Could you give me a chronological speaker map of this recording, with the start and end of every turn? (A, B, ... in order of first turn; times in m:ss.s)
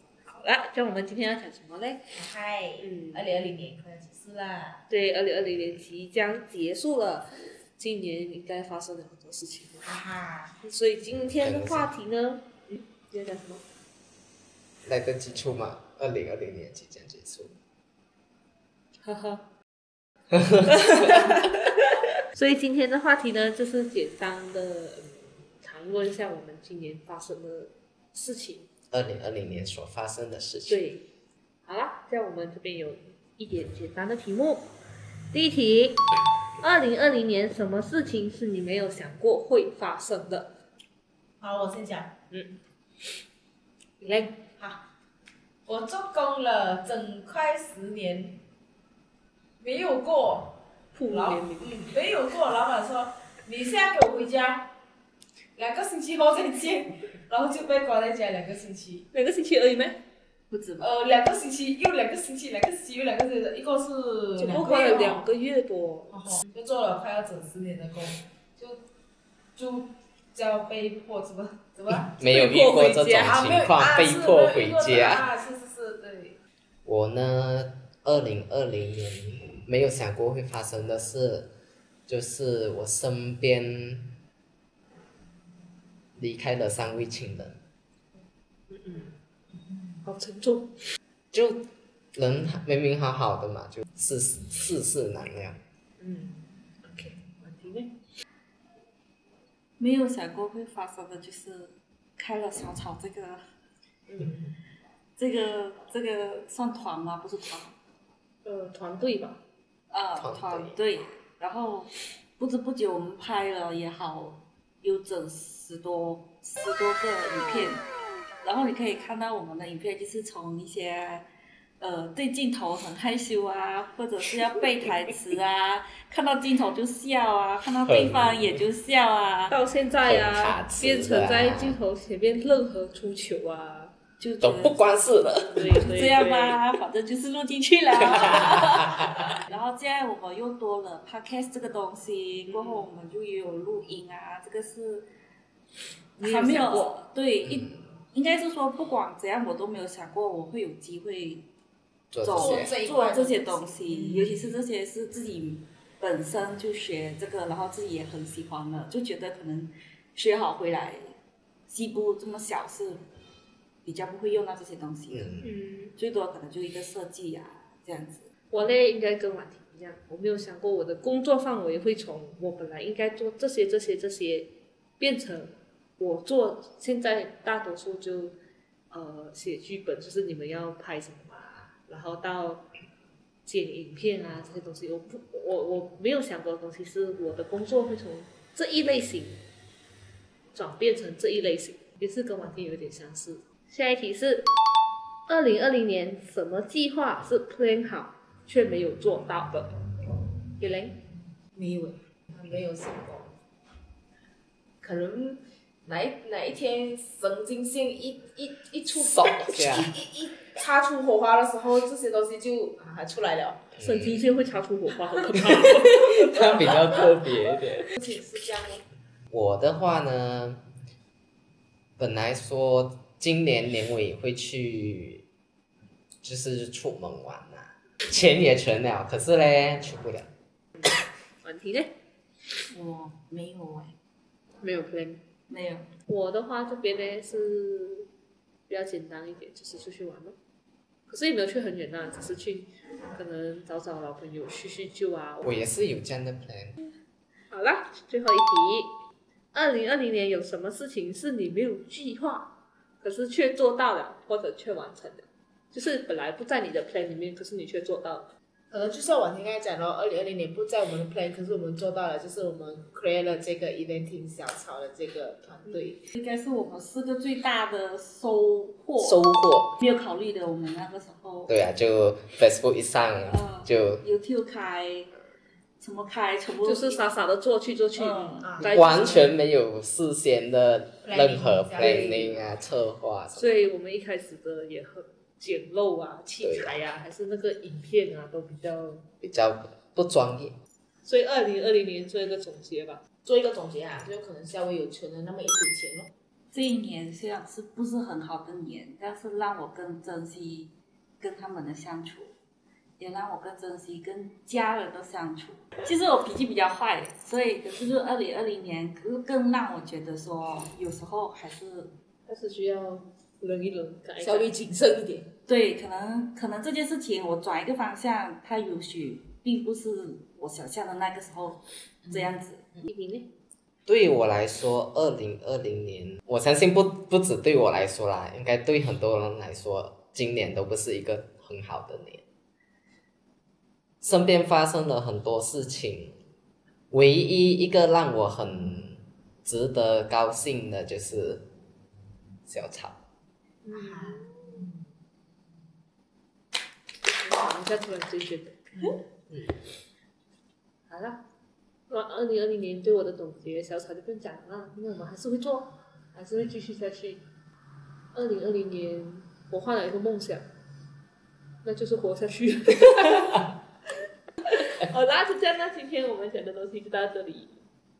0:00.2-0:02.0 A
0:02.1-0:04.8 B
0:04.9-0:09.9 A
0:09.8-0:10.6 B
0:10.6-0:13.6 A
0:11.4-0:11.9 C
0:14.8-0:17.6 C
0:19.0-0:19.4 A
0:20.3-0:21.4 C
0:22.3-0:28.7 A
0:28.9-0:30.8 C
0:30.6-0:31.0 A
0:31.6-0:34.7 A
0:35.3-0:36.0 A
0:36.6-0:40.5 A
0:41.4-0:42.1 B
0:42.3-0:42.6 A
0:44.0-0:44.4 A
0:44.6-0:44.8 B
0:45.6-0:48.4 B
0:49.6-0:50.6 B
0:50.9-0:51.7 A
0:51.1-0:54.7 B
0:55.6-0:59.0 B
0:59.1-1:00.0 A
1:00.5-1:00.9 D
1:00.8-1:05.2 B
1:04.4-1:06.3 A
1:06.1-1:08.8 B
1:09.6-1:12.1 B
1:12.1-1:15.2 C
1:12.2-1:13.4 A
1:13.2-1:16.4 B
1:16.8-1:21.5 C
1:22.1-1:24.1 C
1:26.2-1:27.6 C
1:28.7-1:29.1 A
1:30.0-1:30.7 A
1:31.3-1:31.6 C
1:32.1-1:35.6 C
1:36.0-1:37.9 A
1:39.8-1:43.4 D
1:44.1-1:44.4 A
1:45.2-1:47.8 D
1:48.4-1:49.4 A
1:49.9-1:57.8 D
1:50.1-1:50.8 C
1:58.4-2:01.3 D
2:01.8-2:09.5 D
2:07.8-2:08.6 C
2:09.5-2:13.9 A
2:10.0-2:11.8 C
2:14.2-2:14.9 D
2:14.4-2:15.8 C
2:15.5-2:16.6 A
2:15.6-2:25.1 D
2:22.5-2:22.8 A
2:26.2-2:31.5 D
2:26.2-2:26.9 A
2:32.1-2:32.7 C
2:32.2-2:41.1 D
2:32.3-2:34.5 B
2:41.7-2:43.0 D
2:43.8-2:45.4 D
2:45.1-2:45.4 C
2:45.4-2:45.9 A
2:46.0-2:48.3 D
2:48.5-2:58.4 A
2:58.9-3:02.6 A
3:03.4-3:09.4 A
3:10.5-3:14.5 A
3:15.3-3:19.7 A
3:20.6-3:20.9 A
3:21.5-3:23.3 B
3:24.8-3:33.7 B
3:29.0-3:29.9 C
3:33.8-3:34.2 C
3:33.8-3:36.4 A
3:35.5-3:37.9 C
3:38.0-3:38.8 B
3:39.3-3:40.6 C
3:42.0-3:45.2 C
3:46.2-3:50.3 C
3:51.4-3:51.9 A
3:52.7-3:53.9 D
3:54.6-3:55.2 A
3:55.5-3:55.9 D
3:56.0-3:58.1 A
3:58.7-4:00.4 A
4:01.1-4:05.6 A
4:05.4-4:06.8 C
4:07.5-4:08.9 A
4:09.5-4:18.3 A
4:18.7-4:26.0 B
4:26.1-4:29.2 D
4:29.0-4:29.7 C
4:29.8-4:31.5 D
4:31.5-4:34.0 C
4:33.3-4:35.1 D
4:35.8-4:37.0 D
4:36.6-4:39.3 A
4:38.0-4:38.5 D
4:38.4-4:39.3 B
4:38.7-4:43.6 C
4:41.0-4:42.4 B
4:41.8-4:42.1 A
4:43.3-4:49.0 A
4:46.4-4:46.8 C
4:49.2-4:50.6 C
4:51.0-4:53.0 A
4:53.2-4:56.1 B
4:56.5-5:02.3 D
5:03.0-5:11.9 D
5:12.3-5:14.5 A
5:14.2-5:15.3 B
5:15.4-5:22.6 D
5:22.9-5:23.3 A
5:23.8-5:32.2 C
5:34.0-5:36.1 C
5:36.9-5:41.4 C
5:42.5-5:43.0 C
5:43.6-5:44.4 A
5:43.7-5:44.3 B
5:47.2-5:48.7 A
5:50.9-5:51.2 A
5:51.9-5:57.2 A
5:58.1-6:00.4 A
6:01.6-6:03.5 A
6:04.6-6:07.6 A